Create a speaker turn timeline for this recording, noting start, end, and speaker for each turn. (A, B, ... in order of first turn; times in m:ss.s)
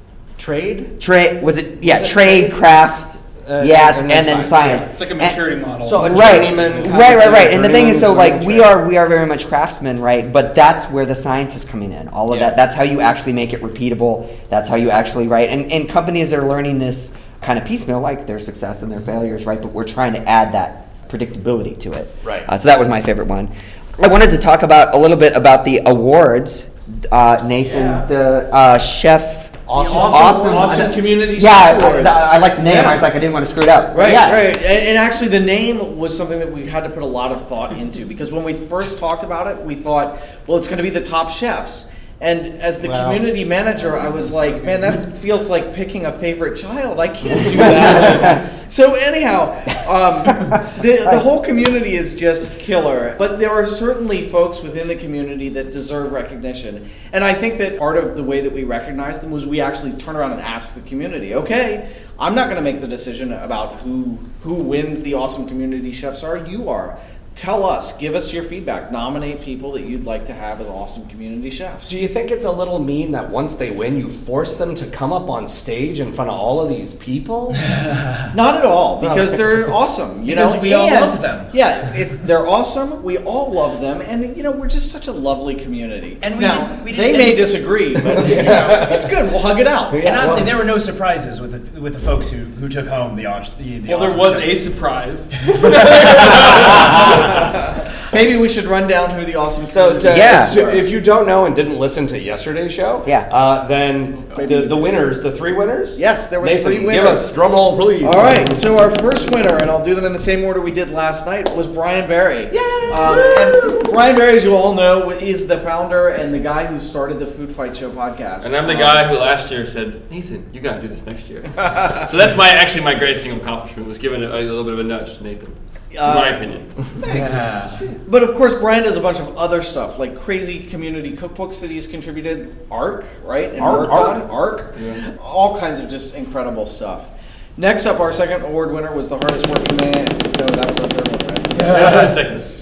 0:00.4-0:01.0 A
0:01.0-0:34.5 B
0:01.8-0:02.6 A
0:03.4-0:04.8 A
0:04.6-0:06.9 C
0:05.8-0:08.7 A
0:27.6-0:28.0 D
0:29.7-0:31.2 A
0:29.7-0:33.0 D
0:33.9-1:12.0 D
0:42.8-0:43.3 A
1:11.9-1:17.6 A
1:18.3-1:30.3 D
1:19.0-1:19.7 A
1:20.2-1:21.5 E
1:26.2-1:27.7 E
1:28.1-1:29.1 A
1:29.9-1:30.6 A
1:30.0-1:34.6 E
1:33.8-1:36.9 C
1:36.5-1:37.5 D
1:38.1-1:40.9 D
1:39.7-1:48.6 A
1:40.1-1:40.6 B
1:44.1-1:44.4 C
1:44.3-1:45.0 D
1:46.0-1:47.3 D
1:48.0-1:59.1 D
1:52.5-1:53.9 A
1:58.4-2:06.7 F
2:05.9-2:06.5 D
2:07.1-2:07.5 D
2:07.1-2:07.5 A
2:07.1-2:07.7 E
2:08.1-2:22.1 D
2:13.6-2:14.3 A
2:21.6-2:22.4 F